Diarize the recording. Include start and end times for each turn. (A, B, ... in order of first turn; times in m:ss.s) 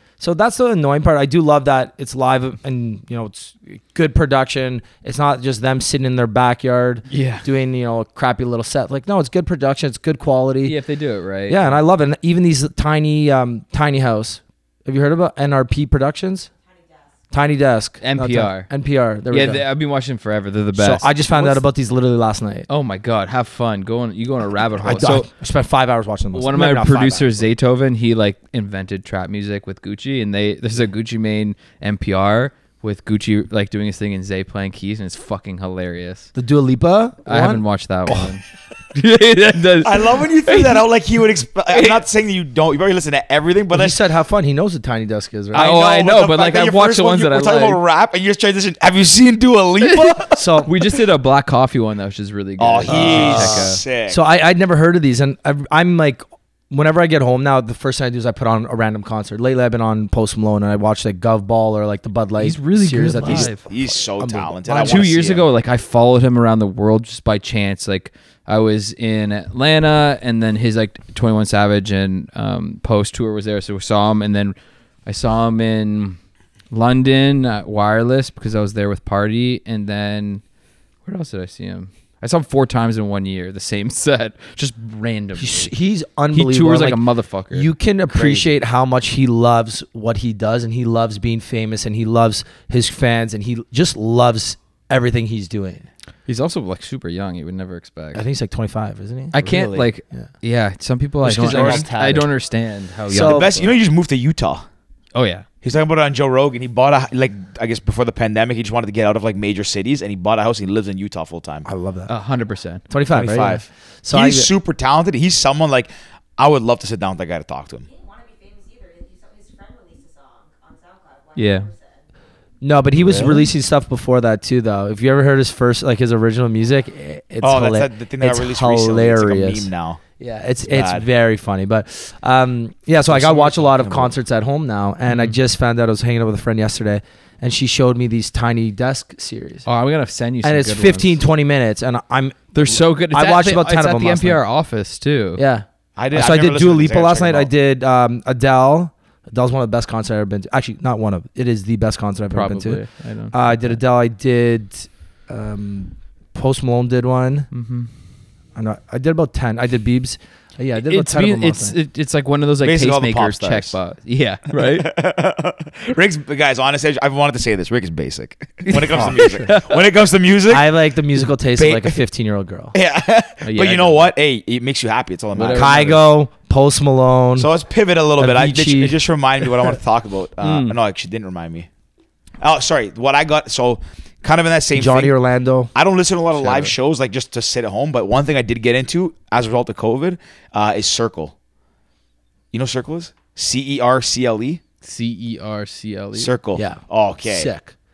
0:00.2-0:10.8 A
0:07.1-0:07.5 B
0:10.6-0:11.7 B
0:11.5-0:16.5 A
0:16.6-0:17.2 C
0:17.3-0:19.6 A
0:18.0-0:18.7 B
0:19.3-0:21.6 B
0:20.8-0:22.7 A
0:22.7-0:25.3 B
0:24.8-0:27.5 A
0:26.3-0:36.3 B
0:36.3-0:38.3 A
0:37.2-0:40.8 B
0:39.8-0:44.0 D
0:41.7-0:42.0 B
0:43.7-0:45.6 A
0:45.5-0:47.8 B
0:45.5-0:50.4 D
0:49.8-0:53.8 B
0:50.3-0:50.7 A
0:52.6-0:54.2 D
0:52.8-1:03.6 A
1:02.4-1:03.6 B
1:03.2-1:05.5 D
1:04.2-1:05.0 A
1:04.8-1:16.2 B
1:16.7-1:20.4 B
1:21.0-1:25.7 B
1:25.4-1:27.0 A
1:26.3-1:27.7 B
1:27.5-1:35.9 A
1:28.1-1:28.5 D
1:36.3-1:38.2 B
1:38.1-1:40.3 A
1:39.3-1:43.7 B
1:39.4-1:39.8 D
1:41.2-1:42.3 A
1:41.4-1:41.9 D
1:43.1-1:43.5 A
1:43.1-1:44.6 D
1:45.1-1:45.4 B
1:45.6-1:51.6 D
1:51.6-1:52.1 A
1:52.1-1:53.5 B
1:52.9-1:54.5 A
1:53.1-1:57.8 D
1:57.8-2:02.0 C
2:01.4-2:01.7 B
2:02.6-2:19.7 A
2:03.0-2:03.4 D
2:07.4-2:10.0 D
2:10.7-2:11.0 D
2:13.0-2:14.1 D
2:15.1-2:15.4 B
2:19.6-2:21.2 B
2:20.4-2:24.4 A
2:22.5-2:25.4 B
2:25.4-2:37.5 A
2:26.0-2:27.5 D
2:32.3-2:33.8 B
2:37.5-2:37.9 B
2:38.6-2:41.8 A
2:40.8-2:44.9 B
2:42.6-2:43.8 D
2:44.5-2:50.8 D
2:48.7-2:49.7 B
2:48.9-2:49.4 A
2:50.5-2:52.7 A
2:51.5-2:52.0 D
2:52.7-2:55.9 D
2:53.4-2:54.1 B
2:55.3-2:56.1 B
2:55.5-2:57.5 A
2:57.4-3:01.7 D
2:58.2-2:59.0 A
3:00.4-3:00.8 B
3:02.4-3:05.1 D
3:04.7-3:05.7 A
3:05.7-3:11.3 D
3:06.4-3:06.7 B
3:12.5-3:14.6 D
3:14.8-3:16.3 B
3:16.1-3:17.5 D
3:16.5-3:17.7 A